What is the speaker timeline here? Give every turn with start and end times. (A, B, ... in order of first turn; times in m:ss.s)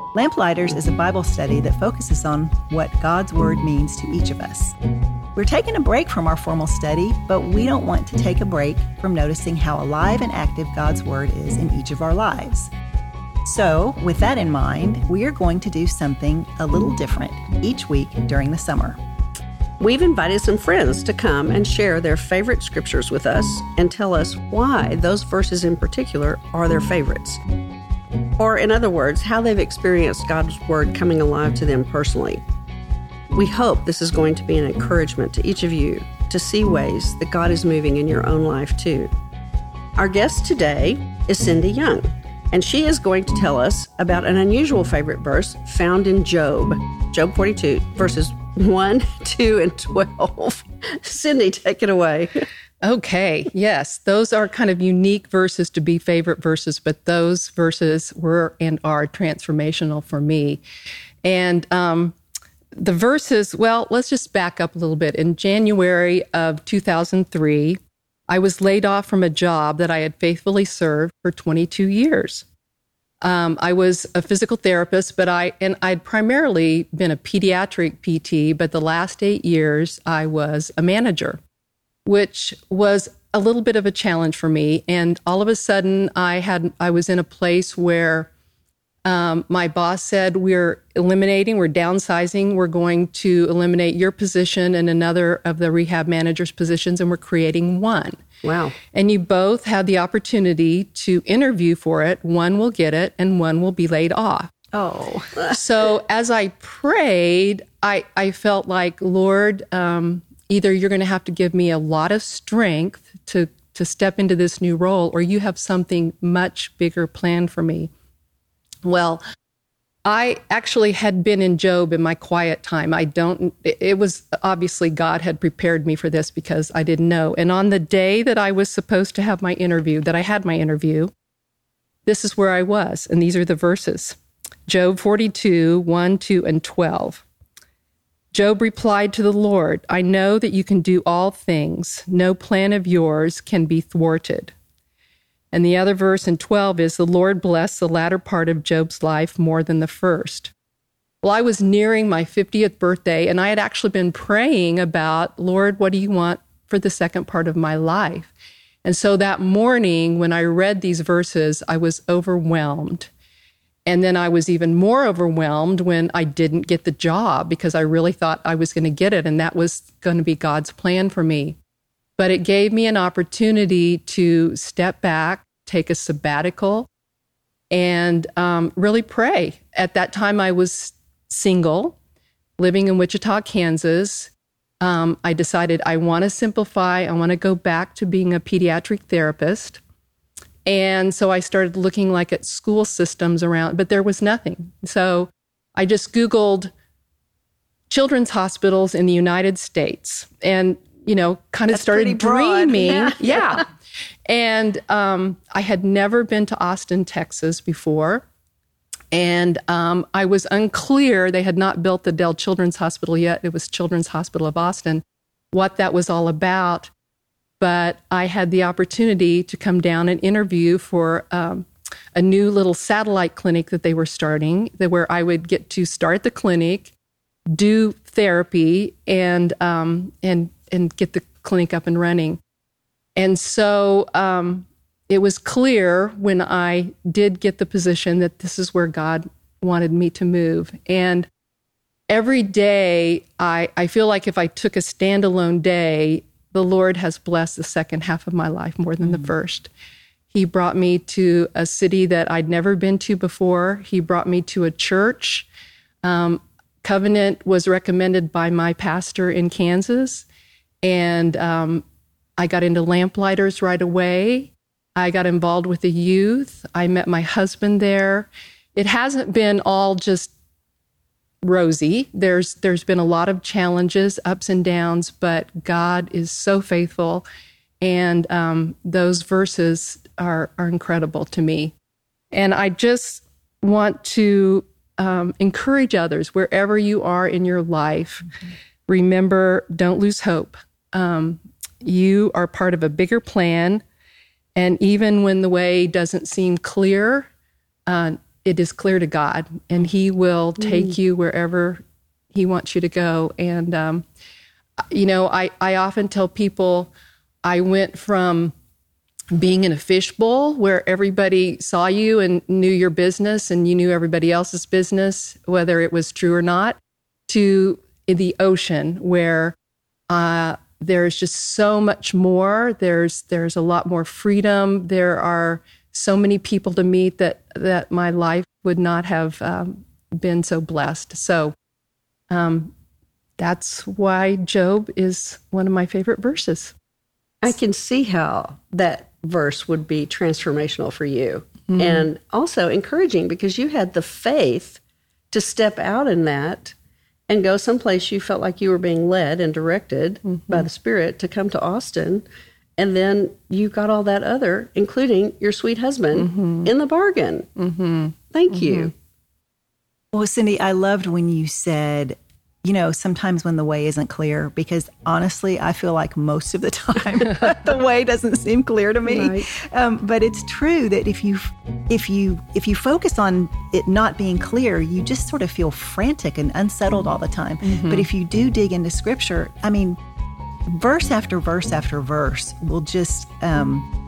0:00.1-0:04.8 A
0:05.4-0:12.7 A
0:13.4-0:19.0 A
0:19.8-0:27.4 B
0:28.4-0:32.4 B
0:33.3-0:39.1 B
0:40.0-0:52.4 B
0:52.8-1:00.6 C
1:01.2-1:02.2 C
1:02.8-1:12.5 C
1:13.2-1:21.4 C
1:22.1-1:28.3 C
1:29.0-1:44.6 C
1:38.4-1:38.8 B
1:44.7-1:45.3 A
1:45.4-1:57.9 C
1:58.8-1:59.2 C
2:00.0-2:11.1 C
2:12.1-2:17.2 C
2:18.3-2:24.5 C
2:25.5-2:30.5 C
2:31.2-2:38.3 C
2:38.8-2:43.1 C
2:43.9-2:51.6 C
2:52.2-2:56.9 C
2:57.7-3:02.0 C
3:02.6-3:09.8 C
3:10.7-3:16.7 C
3:17.9-3:23.7 C
3:21.7-3:23.5 A
3:24.3-3:28.2 C
3:29.1-3:36.9 C
3:37.6-3:46.9 C
3:47.5-3:52.4 C
3:53.2-4:01.3 C
4:02.1-4:09.7 C
4:10.3-4:15.5 C
4:16.0-4:20.3 C
4:20.8-4:21.8 C
4:22.4-4:30.3 C
4:31.4-4:37.2 C
4:37.8-4:41.7 C
4:42.3-4:48.3 C
4:48.9-4:53.8 C
4:54.6-4:57.3 C
4:57.9-5:01.8 C
5:02.3-5:04.0 C
5:04.9-5:06.9 C
5:07.4-5:08.5 C
5:09.3-5:19.6 C
5:20.1-5:31.5 C
5:32.3-5:32.7 C
5:33.4-5:36.8 C
5:37.4-5:46.8 B
5:41.7-5:42.1 C
5:47.3-5:52.3 B
5:50.2-5:50.7 C
5:52.8-5:57.5 B
5:56.1-5:56.7 C
5:57.6-5:58.9 C
5:58.3-5:58.9 B
6:00.1-6:20.0 A
6:09.0-6:09.5 B
6:17.6-6:18.1 C
6:20.7-6:23.9 A